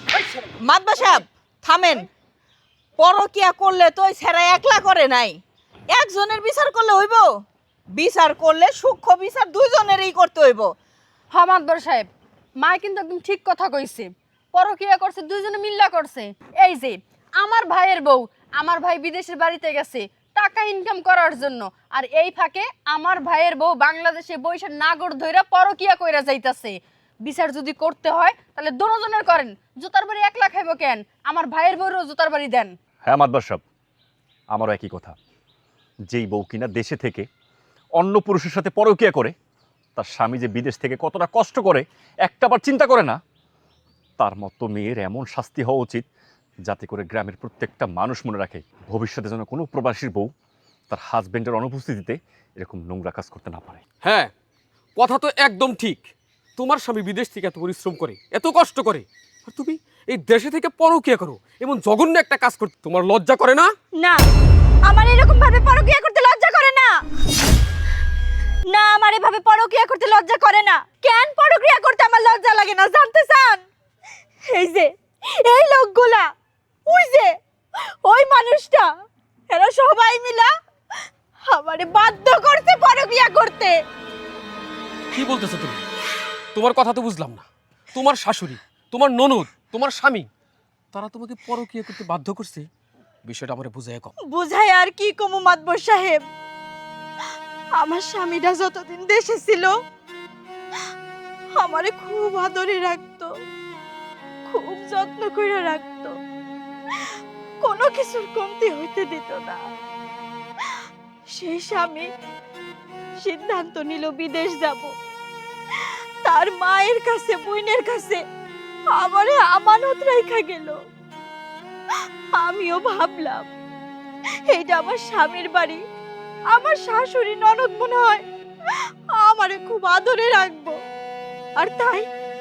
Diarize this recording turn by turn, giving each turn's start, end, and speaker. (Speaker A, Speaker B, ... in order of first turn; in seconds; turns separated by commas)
Speaker A: 0.6-2.1, Speaker A: 3.0-5.4, Speaker A: 5.9-7.3, Speaker A: 7.9-10.7, Speaker B: 11.3-12.1, Speaker B: 12.6-32.7, Speaker C: 33.0-33.6, Speaker C: 34.5-35.2, Speaker C: 36.1-37.3, Speaker C: 38.0-39.4, Speaker C: 40.0-43.2, Speaker C: 44.2-46.1, Speaker C: 46.6-50.3, Speaker C: 50.9-53.8, Speaker D: 54.0-54.3, Speaker D: 55.0-56.0, Speaker D: 56.6-63.7, Speaker E: 64.0-64.2, Speaker E: 64.8-66.9, Speaker E: 68.7-73.7, Speaker E: 74.5-76.3, Speaker E: 76.9-77.3, Speaker E: 78.0-78.9, Speaker E: 79.5-80.5, Speaker E: 81.5-83.8, Speaker D: 85.1-85.8, Speaker D: 86.5-90.3, Speaker D: 90.9-92.7, Speaker D: 93.2-94.1, Speaker E: 94.2-96.2, Speaker E: 97.8-99.7, Speaker E: 101.5-103.3, Speaker E: 104.5-106.2, Speaker E: 107.6-109.6, Speaker E: 111.3-112.1, Speaker E: 113.2-114.9, Speaker E: 115.8-118.2, Speaker E: 118.9-120.8, Speaker E: 122.3-123.5, Speaker E: 124.5-125.8, Speaker E: 126.5-128.2, Speaker E: 129.1-130.8, Speaker E: 131.6-132.1